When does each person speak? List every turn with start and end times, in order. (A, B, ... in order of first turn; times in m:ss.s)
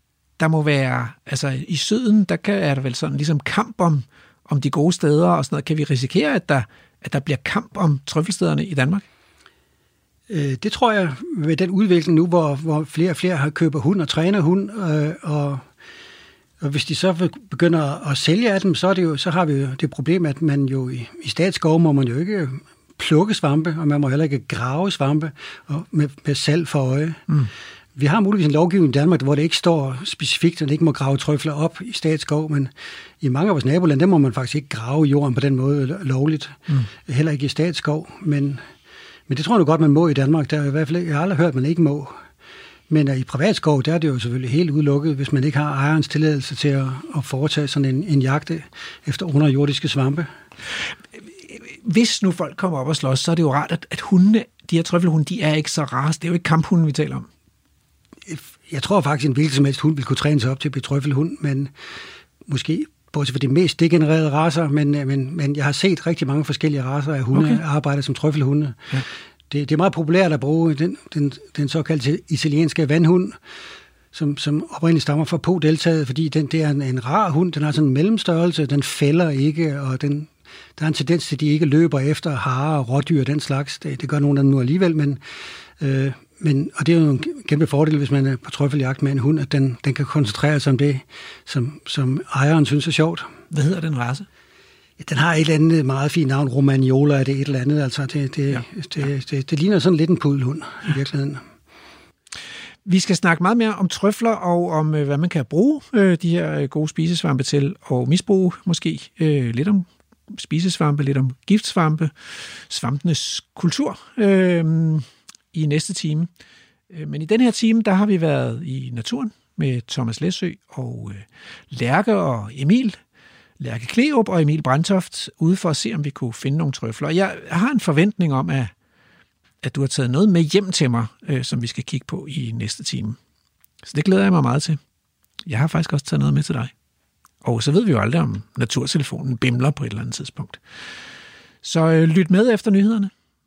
0:00.4-0:09.0 A
0:10.3-0:15.7 B
0:16.6-0:27.2 B
0:28.0-0:38.6 B
0:39.3-0:42.2 B
0:42.9-0:50.3 B
0:51.4-0:57.3 A
0:58.3-1:01.7 B
1:02.5-1:08.9 B
1:07.3-1:07.6 A
1:09.5-1:13.4 B
1:14.1-1:25.2 B
1:25.8-1:33.3 B
1:33.5-1:34.3 A
1:35.0-1:41.4 B
1:42.8-1:56.3 A
1:56.9-2:03.0 A
2:03.6-2:08.7 A
2:09.6-2:13.2 A
2:13.8-2:14.8 A
2:15.5-2:16.7 A
2:17.4-2:20.6 A
2:21.6-2:23.1 A